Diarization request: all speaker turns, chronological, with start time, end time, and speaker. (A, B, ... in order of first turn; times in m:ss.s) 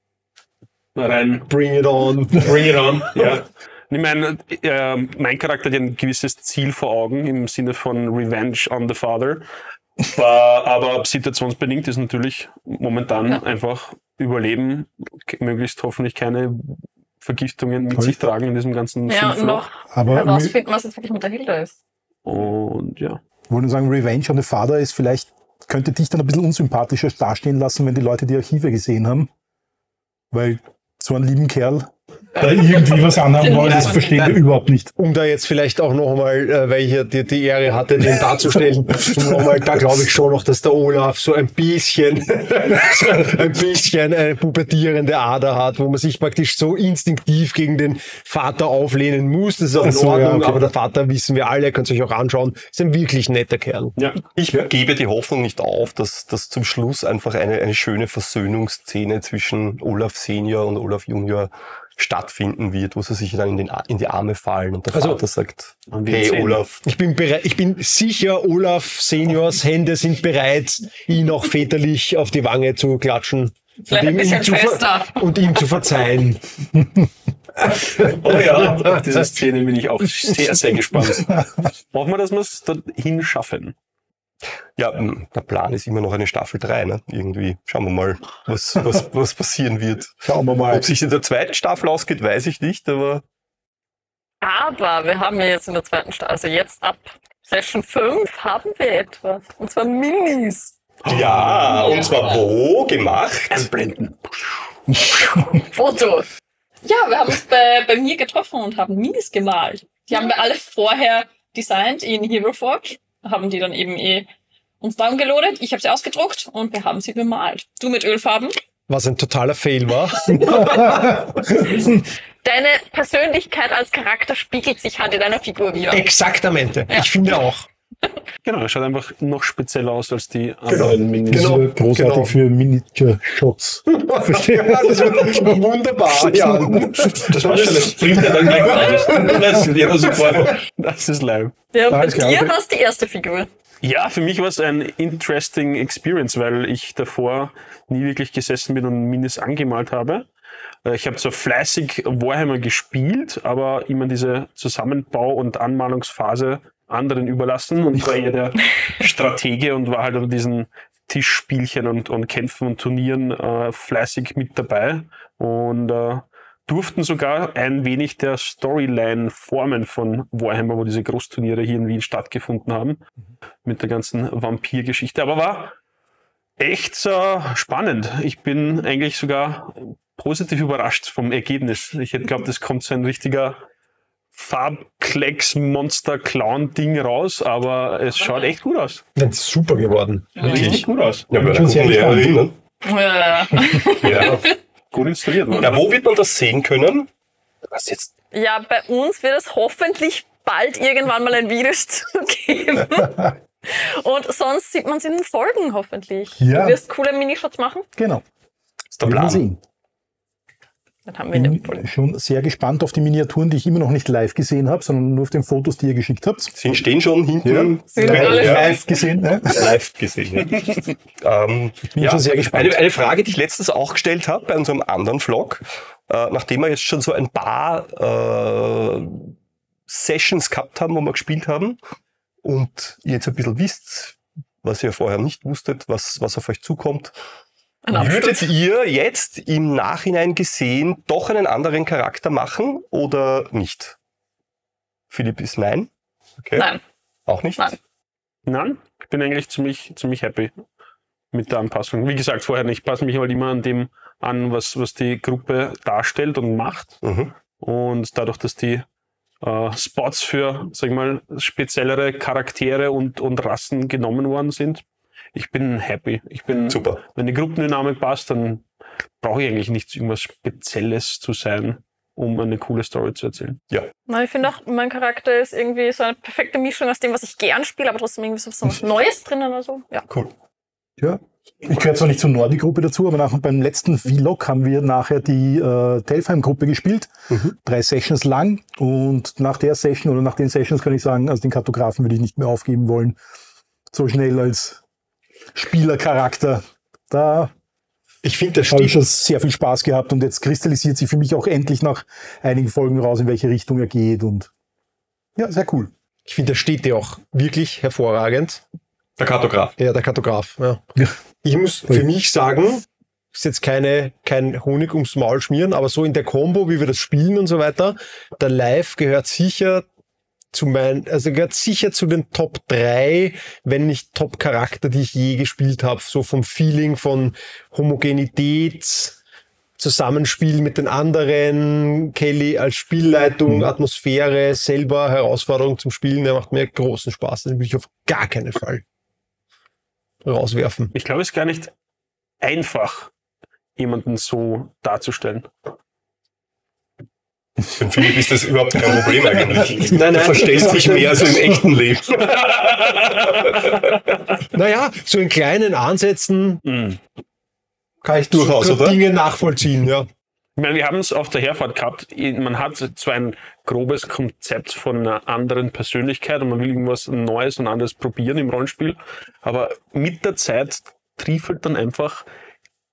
0:01.0-0:01.5 A
0:01.5-0:03.4 B
0:02.4-0:09.4 A
0:10.0-0:19.6 A
0:19.1-0:21.8 C
0:19.9-0:20.6 D
0:22.2-0:23.2 A
0:23.5-0:29.3 D
0:30.3-0:34.9 D
0:33.4-0:34.1 C
0:33.4-0:34.4 B
0:35.0-0:54.0 B
0:49.8-0:50.6 D
0:54.4-1:06.8 E
1:04.9-1:05.2 B
1:05.9-1:06.6 A
1:06.8-1:16.4 B
1:13.9-1:15.6 C
1:18.0-1:23.8 A
1:24.8-1:33.2 E
1:30.2-1:30.9 D
1:34.4-1:40.8 C
1:41.0-1:42.0 A
1:41.1-1:43.7 E
1:41.9-1:42.1 C
1:43.5-1:44.7 A
1:45.1-1:45.4 D
1:45.7-1:46.3 C
1:46.8-1:54.3 C
1:54.8-1:58.5 C
1:58.9-2:01.3 B
2:00.4-2:00.8 C
2:02.4-2:06.1 C
2:05.9-2:07.7 B
2:08.4-2:11.7 A
2:10.7-2:12.3 B
2:10.8-2:15.6 D
2:13.9-2:19.7 B
2:16.2-2:17.1 D
2:17.0-2:21.5 A
2:21.7-2:23.5 C
2:21.9-2:22.6 D
2:23.8-2:30.3 A
2:30.8-2:53.0 A
2:53.6-2:55.8 A
2:56.6-3:03.6 A
3:04.3-3:09.0 A
3:09.2-3:10.5 B
3:10.4-3:11.3 A
3:10.4-3:10.8 C
3:10.4-3:12.6 E
3:11.4-3:12.4 D
3:12.8-3:14.5 C
3:14.0-3:14.5 E
3:14.0-3:15.9 A
3:15.6-3:17.1 E
3:17.7-3:18.1 E
3:18.3-3:27.9 C
3:26.4-3:26.8 D
3:28.0-3:28.2 D
3:29.0-3:29.6 D
3:29.0-3:29.4 E
3:31.1-3:31.9 C
3:31.3-3:36.6 D
3:36.6-3:38.8 E
3:37.4-3:39.8 D
3:37.9-3:38.8 C
3:39.4-3:49.3 E
3:41.9-3:42.8 D
3:49.9-3:51.8 E
3:52.4-3:57.2 E
3:57.9-3:58.5 C
3:57.9-4:04.0 E
4:05.1-4:06.7 E
4:06.6-4:06.8 C
4:07.3-4:07.7 E
4:08.5-4:10.5 A
4:11.3-4:17.0 A
4:17.0-4:17.3 E
4:17.6-4:18.9 A
4:19.4-4:24.8 A
4:25.4-4:28.6 A
4:26.7-4:27.0 E
4:29.2-4:33.6 A
4:34.1-4:40.1 C
4:41.0-4:53.2 D
4:47.3-4:47.6 E
4:53.9-4:54.8 D
4:55.5-4:57.5 D
4:58.2-4:59.0 B
4:58.7-5:04.5 D
5:05.4-5:05.9 D
5:06.3-5:08.6 B
5:09.2-5:09.8 E
5:09.8-5:10.8 B
5:11.4-5:19.8 B
5:20.5-5:29.2 B
5:29.8-5:38.8 B
5:40.2-5:40.9 B
5:40.9-5:41.7 A
5:42.4-5:43.1 A
5:43.8-5:45.5 A
5:47.7-5:54.0 E
5:49.8-5:51.6 B
5:52.5-5:53.0 A
5:54.5-5:56.6 B
5:56.7-5:57.0 A
5:58.0-6:00.1 B
5:58.3-5:59.0 E
6:00.6-6:12.3 A